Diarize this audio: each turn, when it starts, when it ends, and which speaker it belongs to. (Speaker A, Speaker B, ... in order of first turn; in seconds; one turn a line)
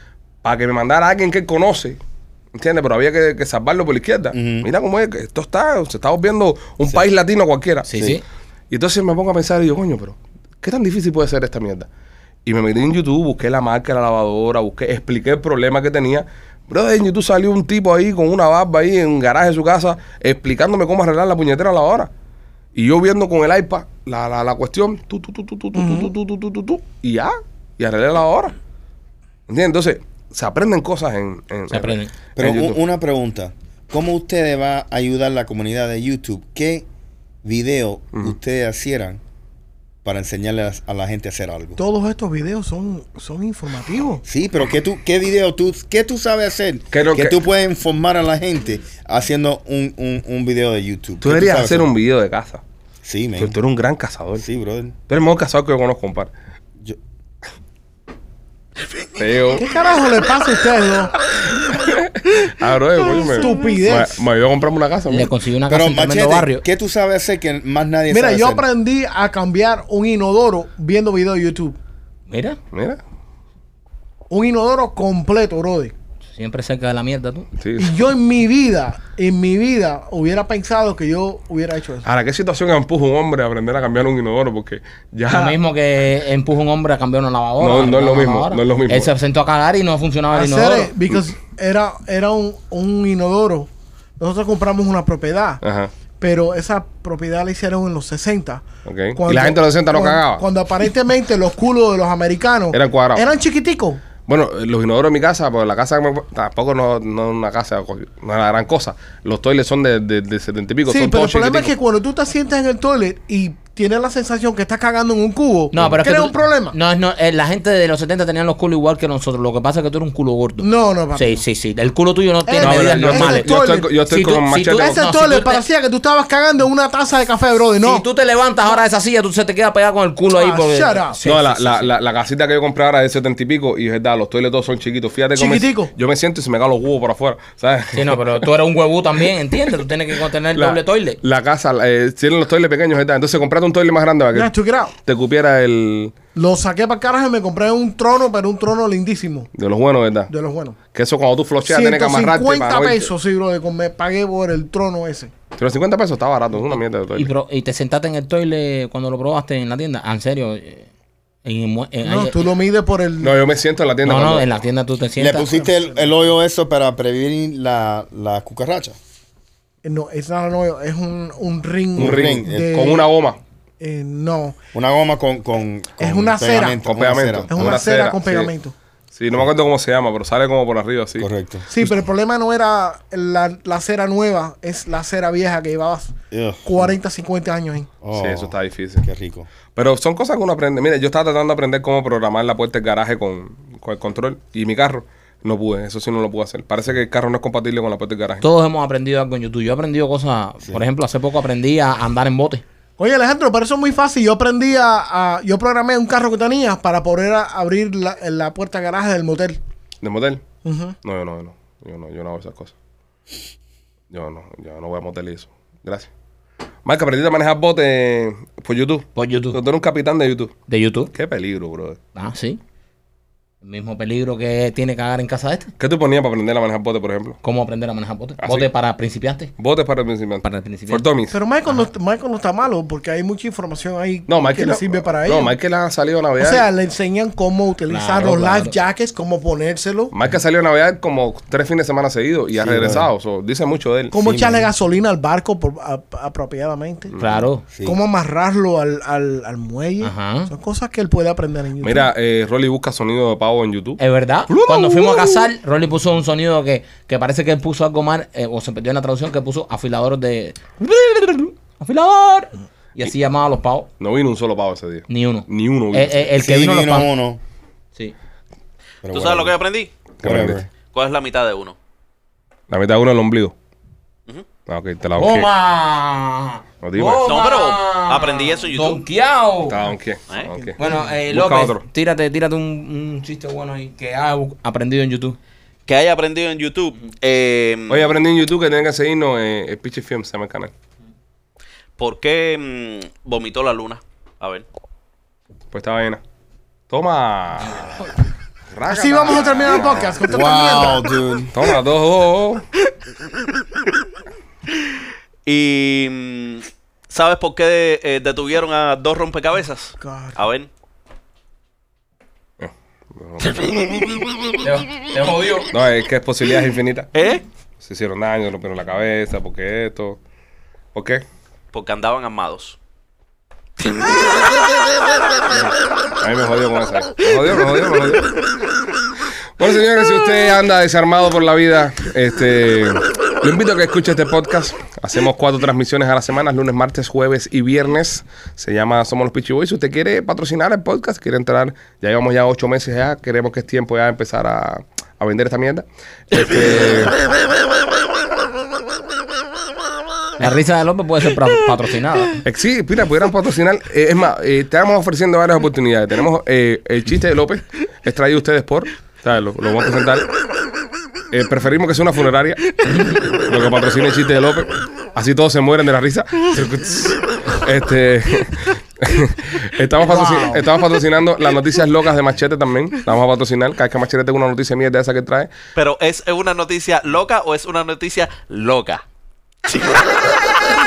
Speaker A: 0.4-2.0
Speaker A: 2.5-8.1
Speaker B: 4.3-4.7
Speaker C: 7.8-8.2
Speaker B: 7.9-8.2
Speaker A: 8.7-11.9
Speaker A: 12.4-22.1
Speaker A: 22.8-28.5
Speaker D: 25.8-26.1
Speaker A: 29.5-32.8
Speaker C: 31.7-32.1
Speaker B: 32.4-36.9
Speaker B: 37.4-39.2
Speaker B: 40.0-41.8
Speaker D: 41.8-44.2
Speaker B: 44.2-51.9
Speaker A: 46.9-47.4
Speaker A: 51.2-52.6
Speaker B: 53.0-53.5
Speaker A: 53.4-54.4
Speaker B: 54.4-54.9
Speaker A: 55.1-56.3
Speaker A: 59.1-59.7
Speaker D: 59.5-61.1
Speaker A: 61.5-65.3
Speaker D: 63.0-64.2
Speaker C: 65.1-66.6
Speaker B: 65.7-68.7
Speaker D: 68.1-71.8
Speaker C: 72.3-72.6
Speaker A: 72.7-73.0
Speaker D: 74.3-75.9
Speaker C: 76.3-77.5
Speaker A: 77.6-78.0
Speaker D: 77.8-82.0
Speaker A: 82.0-85.6
Speaker C: 85.3-90.9
Speaker A: 87.6-89.1
Speaker D: 90.3-93.7
Speaker D: 94.2-95.6
Speaker A: 95.6-95.9
Speaker D: 96.2-98.6
Speaker A: 98.8-100.4
Speaker D: 99.2-104.0
Speaker A: 102.7-103.2
Speaker A: 104.3-111.7
Speaker D: 110.9-116.8
Speaker C: 115.7-123.5
Speaker D: 120.6-121.4
Speaker D: 122.5-123.9
Speaker A: 122.6-125.0
Speaker C: 124.1-125.6
Speaker D: 124.7-128.1
Speaker C: 127.8-131.9
Speaker D: 130.3-131.2
Speaker A: 131.2-138.3
Speaker D: 135.3-135.9
Speaker C: 137.9-141.2
Speaker A: 140.5-144.5
Speaker D: 144.3-144.9
Speaker A: 145.0-146.1
Speaker D: 146.3-149.5
Speaker A: 149.5-150.3
Speaker D: 150.3-150.8
Speaker A: 150.9-153.1
Speaker D: 151.7-155.3
Speaker A: 155.6-157.3
Speaker C: 157.1-160.9
Speaker C: 161.4-162.4
Speaker D: 162.0-163.3
Speaker A: 163.2-164.5
Speaker C: 164.0-165.5
Speaker B: 165.2-169.0
Speaker D: 165.5-166.0
Speaker D: 169.8-173.1
Speaker B: 171.9-172.7
Speaker A: 171.9-173.4
Speaker D: 173.8-174.6
Speaker B: 174.7-177.8
Speaker D: 176.0-176.8
Speaker A: 176.8-178.5
Speaker D: 177.5-178.7
Speaker A: 179.1-181.3
Speaker B: 181.2-181.9
Speaker D: 181.7-187.9
Speaker B: 186.3-186.9
Speaker B: 188.0-189.5
Speaker A: 188.1-189.1
Speaker A: 189.7-198.4
Speaker C: 198.4-202.6
Speaker D: 203.0-209.6
Speaker A: 210.0-210.4
Speaker D: 210.6-210.9
Speaker A: 211.0-212.7
Speaker A: 214.1-216.1
Speaker A: 216.8-220.5
Speaker C: 219.2-219.6
Speaker C: 220.7-221.1
Speaker A: 221.1-222.0
Speaker C: 222.1-222.6
Speaker C: 223.6-225.7
Speaker A: 225.8-227.4
Speaker C: 227.4-229.5
Speaker A: 228.4-228.7
Speaker A: 229.6-231.3
Speaker C: 230.4-231.0
Speaker D: 231.3-235.6
Speaker A: 234.3-236.7
Speaker D: 236.4-240.1
Speaker C: 237.9-238.8
Speaker A: 240.1-244.1
Speaker B: 242.6-243.1
Speaker D: 244.1-247.1
Speaker B: 244.2-244.7
Speaker A: 247.1-247.4
Speaker C: 247.2-247.6
Speaker B: 247.7-248.0
Speaker D: 247.8-252.1
Speaker C: 250.0-250.5
Speaker A: 251.8-255.5
Speaker C: 254.0-263.9
Speaker A: 264.0-266.2
Speaker C: 265.1-267.1
Speaker B: 266.4-267.4
Speaker B: 269.0-269.6
Speaker E: 269.1-269.9
Speaker A: 270.2-270.6
Speaker B: 270.2-270.7
Speaker E: 270.8-271.8
Speaker A: 272.7-273.5
Speaker A: 274.7-275.5
Speaker C: 275.1-279.8
Speaker A: 276.8-277.3
Speaker E: 277.2-279.0
Speaker A: 279.7-281.8
Speaker D: 280.5-280.9
Speaker C: 280.8-285.4
Speaker E: 285.9-288.1
Speaker A: 287.9-290.7
Speaker E: 292.0-294.6
Speaker A: 295.7-296.2
Speaker A: 296.9-298.1
Speaker A: 298.7-300.2
Speaker D: 298.9-301.1
Speaker B: 300.2-301.5
Speaker A: 301.5-302.6
Speaker E: 305.4-310.7
Speaker D: 310.0-310.4
Speaker A: 312.6-314.2
Speaker C: 314.6-315.7
Speaker A: 315.7-317.1
Speaker E: 317.1-317.4
Speaker A: 317.8-320.2
Speaker A: 320.9-321.2
Speaker E: 321.7-322.8
Speaker E: 323.8-324.4
Speaker A: 326.2-328.3
Speaker A: 329.6-347.2
Speaker C: 350.4-352.4
Speaker A: 352.4-360.3
Speaker A: 361.3-375.5
Speaker D: 370.0-370.6
Speaker E: 375.8-379.0